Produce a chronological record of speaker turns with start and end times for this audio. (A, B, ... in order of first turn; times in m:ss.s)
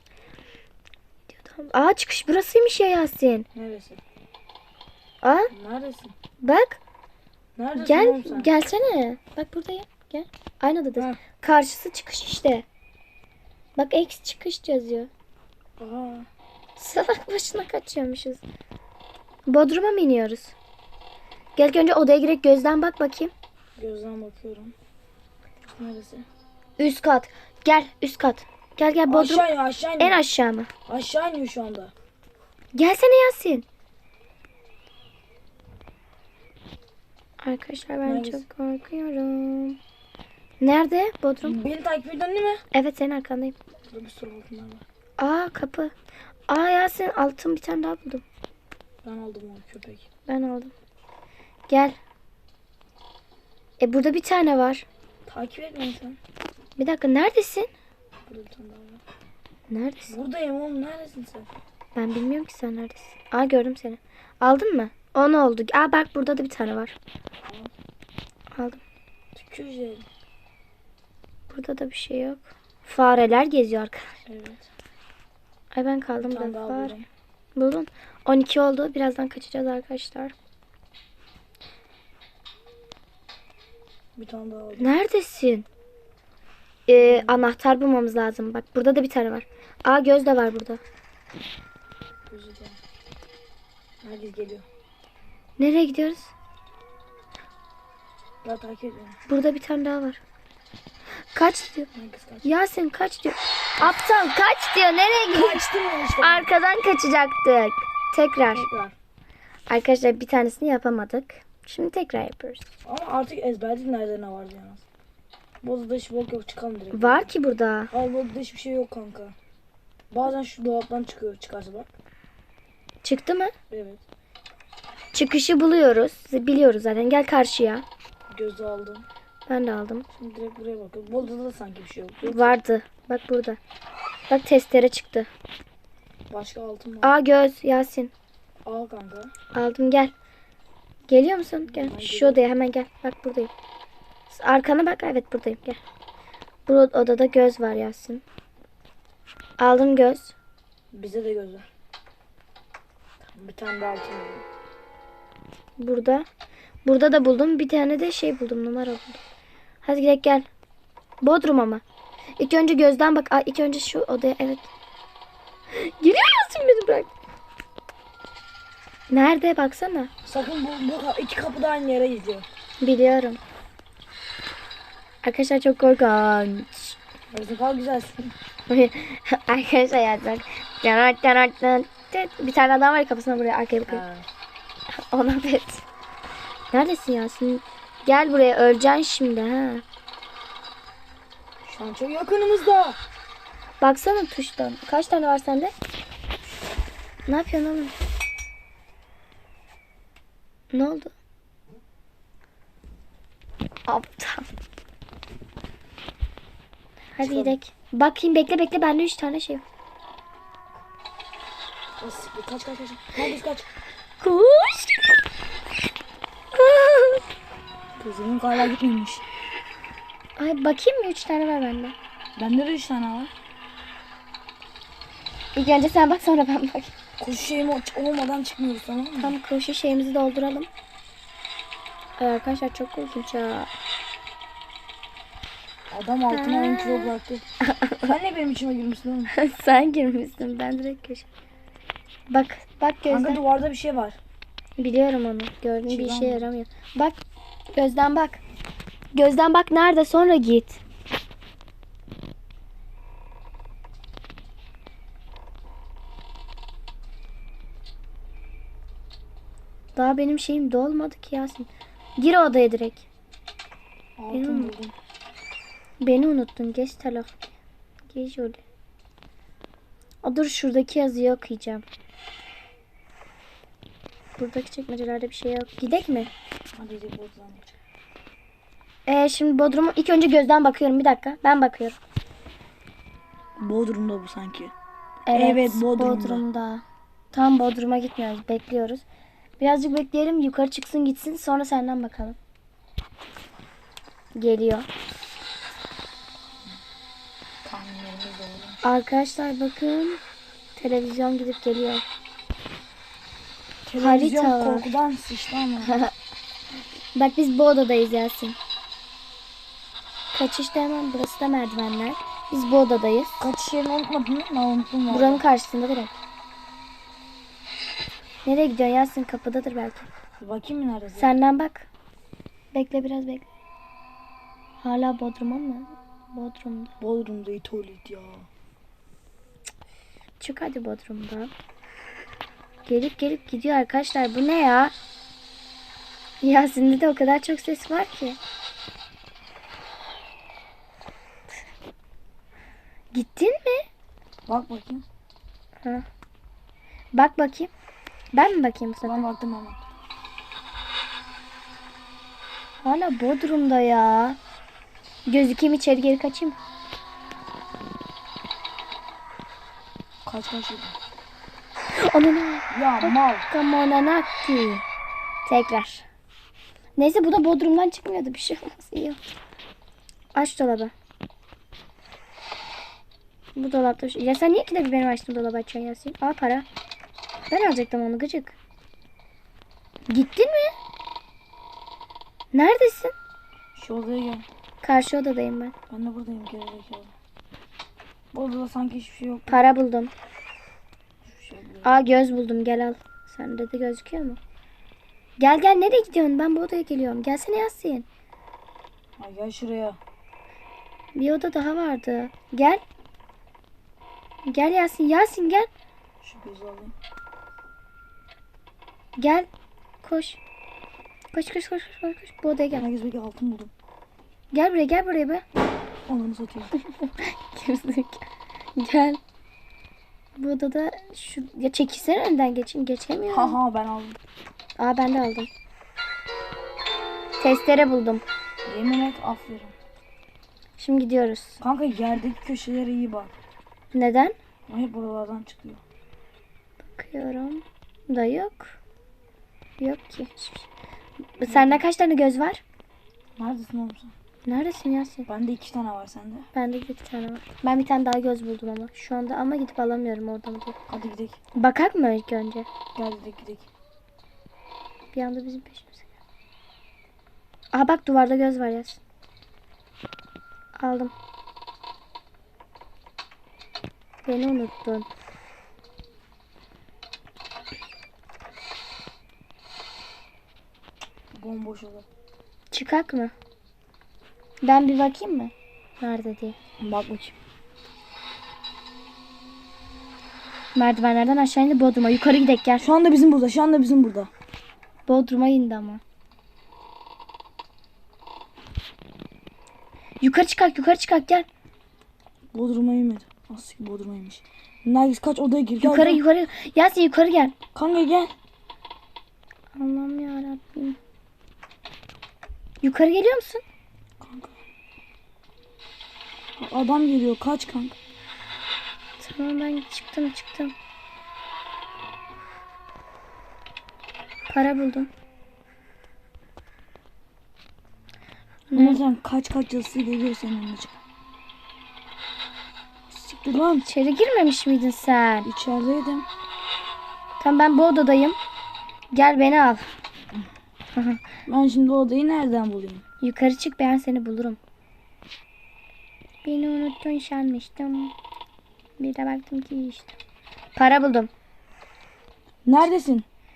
0:01.4-0:03.5 A
0:03.6-0:04.0 B
0:05.2-0:05.5 A
0:05.5-0:06.2 B
0:06.4-0:06.8 A
0:07.6-0:08.5 B
0:07.8-0:12.7 A
0:13.8-0:15.1 A
0:15.8-0:16.3 B
0:16.8-0:18.4 A
0:19.5-0:20.6 A
0:21.6-0:23.3 A
0:23.8-0:24.7 B
0:25.8-0:26.3 B
0:26.8-0:30.7 A
0:29.1-0:30.2 B
0:30.9-0:31.9 B
0:32.8-0:33.7 A
0:37.4-0:39.8 A
0:38.0-0:38.5 B
0:40.6-0:41.6 A
0:41.4-0:42.6 B
0:42.7-0:43.6 A
0:43.9-0:44.8 B
0:45.2-0:45.9 A
0:46.5-0:48.2 A
0:49.0-0:50.1 B
0:50.3-0:50.7 A
0:51.7-0:52.0 A
0:53.8-0:54.9 A
0:55.3-0:56.2 B
0:56.8-0:57.7 A
0:58.3-0:59.0 B
0:59.7-1:00.2 A
1:00.1-1:01.5 B
1:02.0-1:07.0 A
1:07.4-1:07.7 B
1:08.5-1:08.8 A
1:09.4-1:10.1 B
1:11.5-1:14.2 A
1:14.3-1:14.7 B
1:15.7-1:17.0 A
1:16.2-1:17.1 B
1:17.6-1:20.3 A
1:24.2-1:25.0 B
1:24.8-1:25.7 A
1:26.9-1:30.8 A
1:27.0-1:27.5 B
1:32.3-1:32.8 B
1:34.0-1:34.6 B
1:35.6-1:36.3 A
1:38.4-1:39.2 B
1:39.3-1:40.2 A
1:41.3-1:41.9 A
1:41.9-1:42.5 B
1:42.4-1:45.6 A
1:45.3-1:46.5 B
1:46.2-1:48.7 A
1:48.5-1:49.0 B
1:49.7-1:52.7 A
1:52.8-1:54.8 B
1:55.6-1:57.3 B
1:56.9-1:57.9 A
1:57.9-1:59.4 B
2:00.1-2:01.9 B
2:03.0-2:03.5 A
2:03.7-2:04.0 B
2:05.1-2:07.8 A
2:08.3-2:09.1 B
2:09.5-2:10.1 A
2:10.1-2:12.6 B
2:12.2-2:13.6 A
2:14.3-2:15.3 A
2:16.3-2:17.1 B
2:17.0-2:18.1 A
2:18.6-2:19.3 B
2:19.5-2:20.1 A
2:21.1-2:23.5 A
2:21.7-2:22.4 B
2:24.3-2:25.8 A
2:26.7-2:28.2 A
2:29.6-2:30.3 A
2:30.9-2:31.7 B
2:33.3-2:34.4 B
2:35.8-2:36.3 A
2:36.8-2:39.2 A
2:39.8-2:40.5 A
2:41.2-2:41.8 A
2:42.4-2:44.7 A
2:45.7-2:47.1 A
2:49.1-2:50.1 A
2:50.2-2:52.5 B
2:52.8-2:53.4 A
2:55.2-2:57.0 A
2:57.3-2:58.3 B
2:58.7-3:04.0 A
3:03.9-3:04.3 B
3:04.9-3:05.8 A
3:06.7-3:09.8 A
3:11.6-3:13.0 B
3:13.8-3:15.7 A
3:17.3-3:18.0 A
3:20.7-3:21.1 A
3:23.9-3:24.5 A
3:27.2-3:29.6 A
3:27.2-3:27.6 B
3:32.0-3:33.7 B
3:34.2-3:35.2 A
3:36.5-3:37.2 A
3:38.0-3:39.2 B
3:40.4-3:42.0 A
3:42.4-3:43.3 B
3:45.6-3:46.9 A
3:47.2-3:49.4 B
3:49.2-3:50.7 A
3:52.2-3:53.7 A
3:55.9-3:57.4 B
3:56.3-3:57.1 A
3:57.7-3:58.1 A
3:58.0-3:59.3 B
3:59.3-4:01.3 A
4:02.3-4:03.4 A
4:03.1-4:04.2 B
4:04.8-4:07.2 A
4:05.9-4:06.5 B
4:07.8-4:08.4 A
4:09.1-4:10.8 A
4:20.0-4:23.1 A
4:24.2-4:25.0 B
4:24.3-4:24.7 A
4:26.0-4:27.3 A
4:28.1-4:28.6 A
4:30.2-4:31.9 A
4:34.4-4:36.3 A
4:36.8-4:37.7 B
4:39.1-4:42.0 A
4:43.6-4:44.7 B
4:45.3-4:49.0 A
4:45.3-4:46.4 B
4:49.6-4:52.4 A
4:54.4-4:54.9 A
4:57.6-4:58.8 B
4:58.8-5:00.2 A
5:00.8-5:02.0 A
5:03.9-5:06.0 B
5:04.0-5:04.9 A
5:05.8-5:06.1 A
5:07.2-5:08.6 A
5:10.3-5:13.5 A
5:13.4-5:15.4 B
5:15.1-5:16.2 A
5:18.4-5:20.1 A
5:20.4-5:21.3 B
5:21.2-5:21.9 A
5:22.7-5:23.5 A
5:24.8-5:26.9 A
5:27.0-5:28.5 B
5:30.4-5:31.5 A
5:32.9-5:34.9 A
5:36.4-5:38.4 A
5:43.1-5:43.9 A
5:44.5-5:45.0 B
5:47.1-5:47.7 A
5:48.3-5:49.2 A
5:49.0-5:49.8 B
5:52.8-5:54.4 A
5:55.3-5:56.6 A
6:00.2-6:01.0 B
6:02.0-6:04.8 A
6:02.7-6:03.5 B
6:05.5-6:06.0 A
6:07.0-6:09.2 A
6:10.3-6:10.9 A
6:13.6-6:16.7 A
6:17.5-6:18.6 A
6:20.1-6:20.8 A
6:22.5-6:23.1 A
6:23.8-6:24.5 B
6:24.8-6:25.7 A
6:25.9-6:27.1 B
6:28.3-6:29.6 B
6:29.5-6:30.1 A
6:31.2-6:32.0 B
6:31.8-6:34.4 A
6:35.4-6:38.1 A
6:39.2-6:40.0 B
6:41.2-6:42.8 A
6:44.5-6:45.7 A
6:46.2-6:46.9 B
6:49.2-6:49.5 A
6:50.0-6:50.4 A
6:51.3-6:52.9 A
6:52.8-6:53.7 B
6:54.5-6:55.4 A
6:56.1-6:56.7 B
6:56.8-6:59.2 A
7:00.4-7:03.6 A
7:03.3-7:04.2 B
7:04.8-7:05.5 A
7:07.4-7:08.2 A
7:08.7-7:09.7 B
7:10.8-7:11.6 A
7:11.6-7:13.3 B
7:13.9-7:14.4 A
7:14.7-7:15.8 B
7:17.0-7:18.8 A
7:19.8-7:20.7 A
7:21.4-7:22.6 A
7:21.5-7:21.8 B
7:23.4-7:24.1 B
7:24.4-7:25.3 A
7:25.3-7:26.5 B
7:26.5-7:30.8 A
7:30.9-7:31.4 B
7:31.6-7:32.7 A
7:33.0-7:33.7 B
7:35.1-7:36.1 A
7:37.7-7:39.0 A
7:40.8-7:41.1 A
7:44.2-7:45.1 A
7:51.4-7:52.1 B
7:52.7-7:53.3 A
7:54.6-7:56.6 A
7:56.8-7:57.4 B
8:00.8-8:02.9 A
8:02.8-8:04.3 B
8:05.1-8:06.0 A
8:10.2-8:11.5 A
8:12.5-8:16.2 B
8:15.8-8:17.6 A
8:17.8-8:18.4 B
8:19.8-8:21.0 A
8:22.8-8:23.6 A
8:24.2-8:24.6 B
8:26.6-8:28.0 B
8:29.2-8:30.7 A
8:34.5-8:35.1 A
8:38.7-8:39.0 A
8:38.7-8:41.0 B
8:43.1-8:43.9 B
8:43.9-8:45.5 A
8:45.4-8:46.3 B
8:47.4-8:48.4 A
8:49.1-8:49.9 A
8:50.9-8:51.2 A
8:51.5-8:53.0 B
8:53.2-8:54.6 A
8:56.4-8:58.2 A
8:59.0-9:00.2 A
9:00.8-9:01.3 A
9:02.6-9:03.3 B